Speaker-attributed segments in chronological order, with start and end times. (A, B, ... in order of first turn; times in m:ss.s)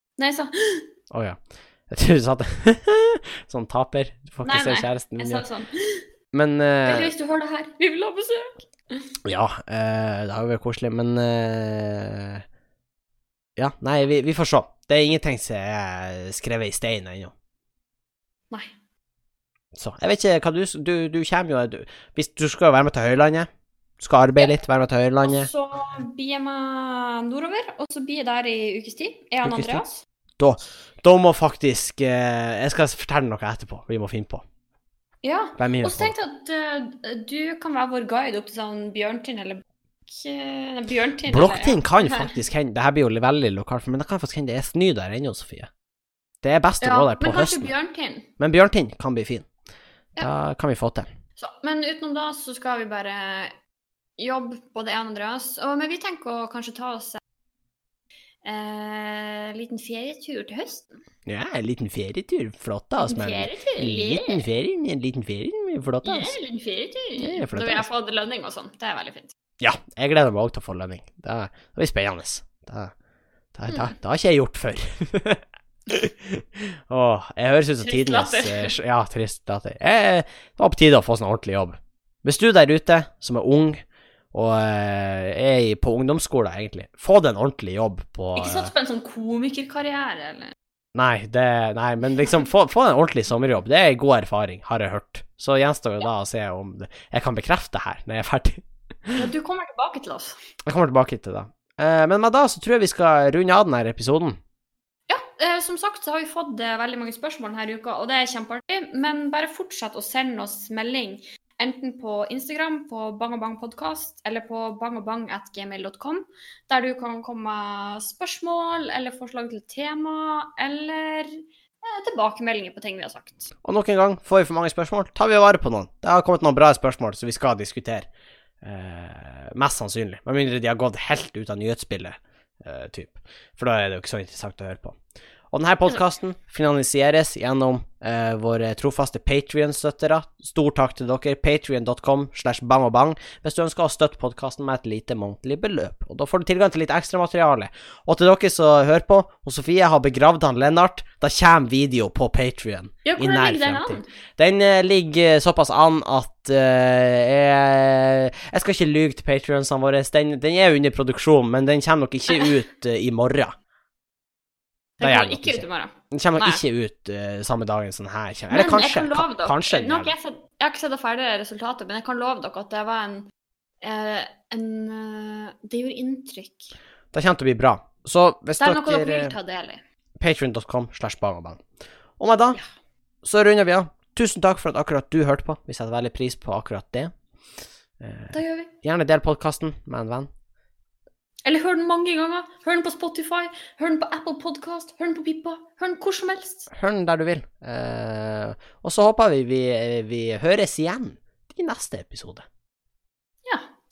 0:00.2-0:00.9 A
0:01.1-0:05.4 B
0:04.4-0:06.0 A
0:06.3-0:07.1 B
0:06.8-0:09.0 A
0:09.2-0:12.4 B
0:13.6-0:17.3 B
0:19.8-0:23.5 B
0:24.0-0:25.5 B
0:25.2-0:30.0 A
0:29.4-0:29.8 B
0:30.4-0:34.4 B
0:35.2-0:42.3 A
0:35.6-0:36.1 B
0:41.3-0:45.7 B
0:46.4-0:47.7 B
0:46.8-0:48.3 A
0:48.4-0:49.4 B
0:50.2-0:51.1 B
0:51.4-0:53.5 A
0:54.2-0:57.2 A
0:58.4-1:01.0 A
1:01.2-1:06.4 B
1:03.0-1:04.4 A
1:06.0-1:09.3 A
1:07.2-1:07.8 B
1:09.6-1:12.9 B
1:13.5-1:28.7 B
1:17.8-1:18.7 A
1:28.4-1:30.5 A
1:30.9-1:39.2 B
1:39.1-1:40.4 A
1:40.6-1:44.4 B
1:45.1-2:03.5 A
2:03.6-2:08.1 B
2:08.6-2:15.0 B
2:15.5-2:43.5 B
2:33.0-2:34.1 A
2:45.0-2:46.6 A
2:45.0-2:50.1 B
2:48.5-2:53.3 A
2:53.8-2:56.7 A
2:57.1-2:59.3 B
2:58.6-2:59.8 A
3:00.2-3:01.6 B
3:02.2-3:02.6 B
3:03.2-3:07.1 B
3:08.0-3:10.3 B
3:08.3-3:08.7 A
3:11.4-3:16.7 A
3:16.7-3:22.4 B